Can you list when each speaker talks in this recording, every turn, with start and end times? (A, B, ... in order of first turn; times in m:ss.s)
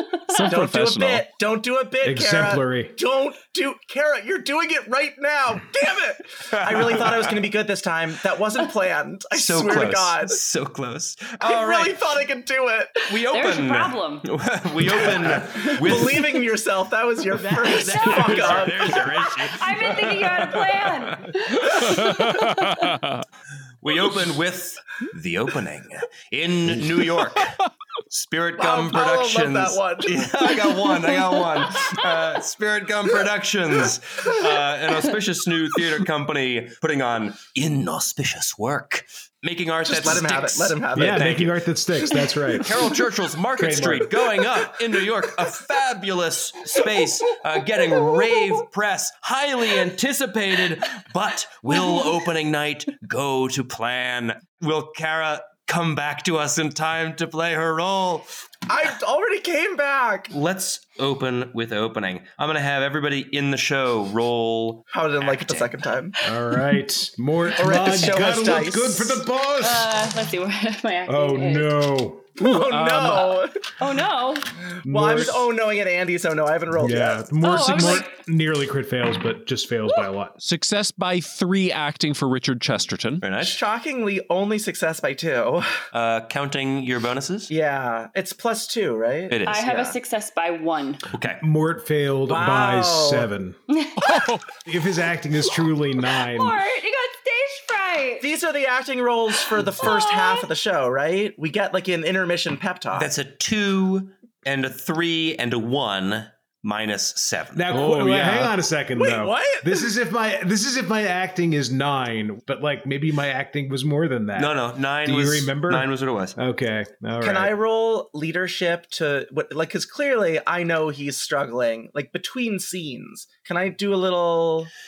0:00.3-0:01.2 A
0:00.4-0:10.4 B
0:02.0-0:03.0 C
0:06.5-0:07.3 D
0:09.3-0:12.0 D
0:11.4-0:13.0 B
0:13.1-0:16.4 D
0:13.3-0:14.3 E
0:14.9-0:19.0 B
0:17.5-0:23.0 E
0:17.9-0:20.2 A
0:18.0-0:19.1 D
0:21.5-0:23.2 A
0:23.8-0:27.6 D
0:28.1-0:41.5 D
0:28.6-0:30.3 B
0:39.9-0:41.6 B
0:40.9-0:42.8 C
0:42.5-0:58.3 D
0:43.6-0:44.4 C
0:58.7-1:00.3 B
1:00.3-1:05.8 D
1:04.9-1:06.2 B
1:06.2-1:09.9 C
1:07.6-1:09.2 B
1:09.6-1:11.8 E
1:11.1-1:12.4 C
1:12.4-1:13.7 B
1:12.4-1:13.4 A
1:13.8-1:14.5 E
1:14.8-1:17.2 B
1:14.8-1:15.5 C
1:16.8-1:20.4 C
1:17.4-1:18.2 E
1:17.5-1:18.0 A
1:20.4-1:23.3 A
1:23.2-1:23.6 D
1:23.4-1:25.8 B
1:25.9-1:27.5 D
1:27.5-1:30.0 B
1:29.3-1:29.6 D
1:29.5-1:31.0 E
1:31.1-1:31.4 D
1:31.4-1:33.6 C
1:32.3-1:33.3 B
1:33.7-1:34.4 E
1:34.0-1:34.5 A
1:34.6-1:36.6 C
1:36.0-1:38.3 E
1:38.2-1:43.1 B
1:39.8-1:40.5 E
1:43.0-1:47.7 D
1:47.6-1:57.5 C
1:47.7-1:48.5 A
1:49.0-1:49.9 B
1:54.4-1:56.4 D
1:57.2-2:04.7 B